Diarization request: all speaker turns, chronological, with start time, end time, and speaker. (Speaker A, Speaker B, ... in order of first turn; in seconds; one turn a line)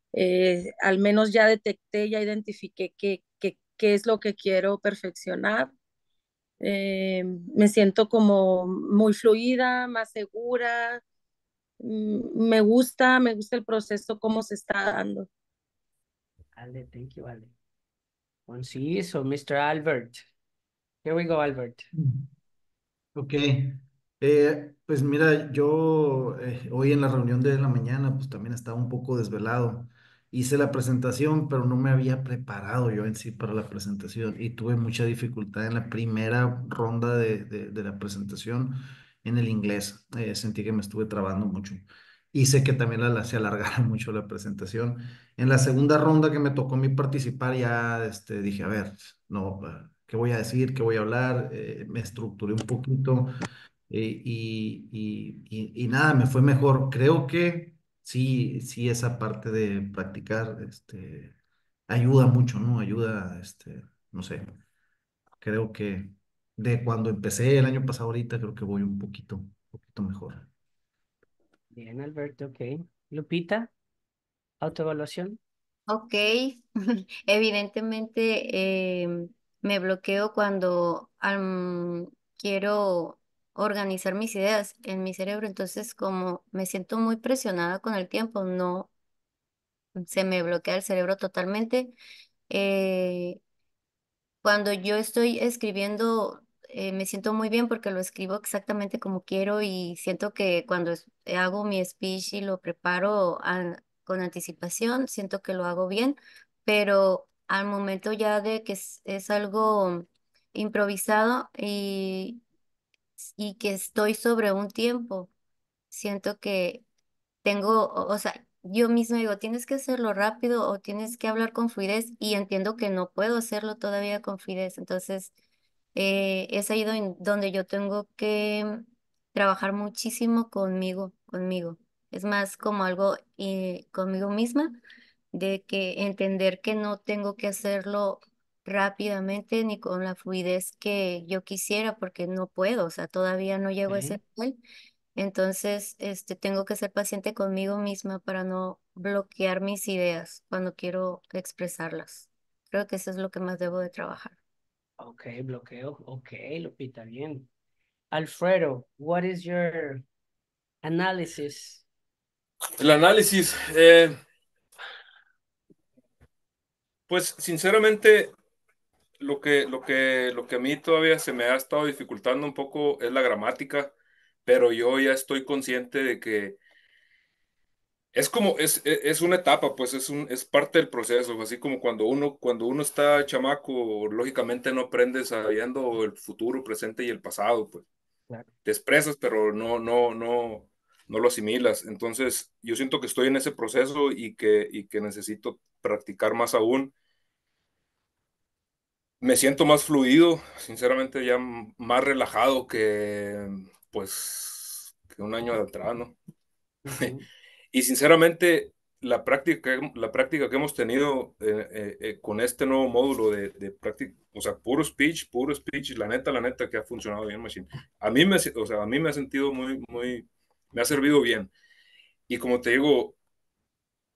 Speaker A: 0.1-5.7
Speaker A: 6.6-11.0
Speaker A: 11.8-15.3
Speaker B: 16.6-17.5
Speaker B: 18.5-20.2
Speaker B: 21.0-21.9
Speaker C: 22.0-22.3
Speaker C: 23.1-53.3
Speaker C: 53.9-61.3
Speaker C: 61.9-64.5
Speaker C: 65.4-70.5
Speaker B: 71.7-73.7
Speaker B: 74.6-75.4
Speaker D: 75.9-88.9
Speaker D: 90.0-92.0
Speaker D: 92.5-93.4
Speaker D: 94.4-112.4
Speaker D: 113.2-115.3
Speaker D: 115.9-116.8
Speaker D: 117.4-125.3
Speaker D: 126.0-134.8
Speaker D: 135.3-144.6
Speaker B: 143.9-144.2
Speaker D: 145.2-154.4
Speaker B: 155.0-157.5
Speaker B: 158.1-160.0
Speaker B: 160.8-161.8
Speaker E: 162.8-164.2
Speaker E: 167.1-168.3
Speaker E: 169.2-173.9
Speaker E: 174.5-176.6
Speaker E: 178.1-187.8
Speaker E: 188.7-196.9
Speaker E: 199.2-206.2
Speaker B: 206.8-207.2
Speaker E: 207.7-221.5
Speaker E: 222.3-223.2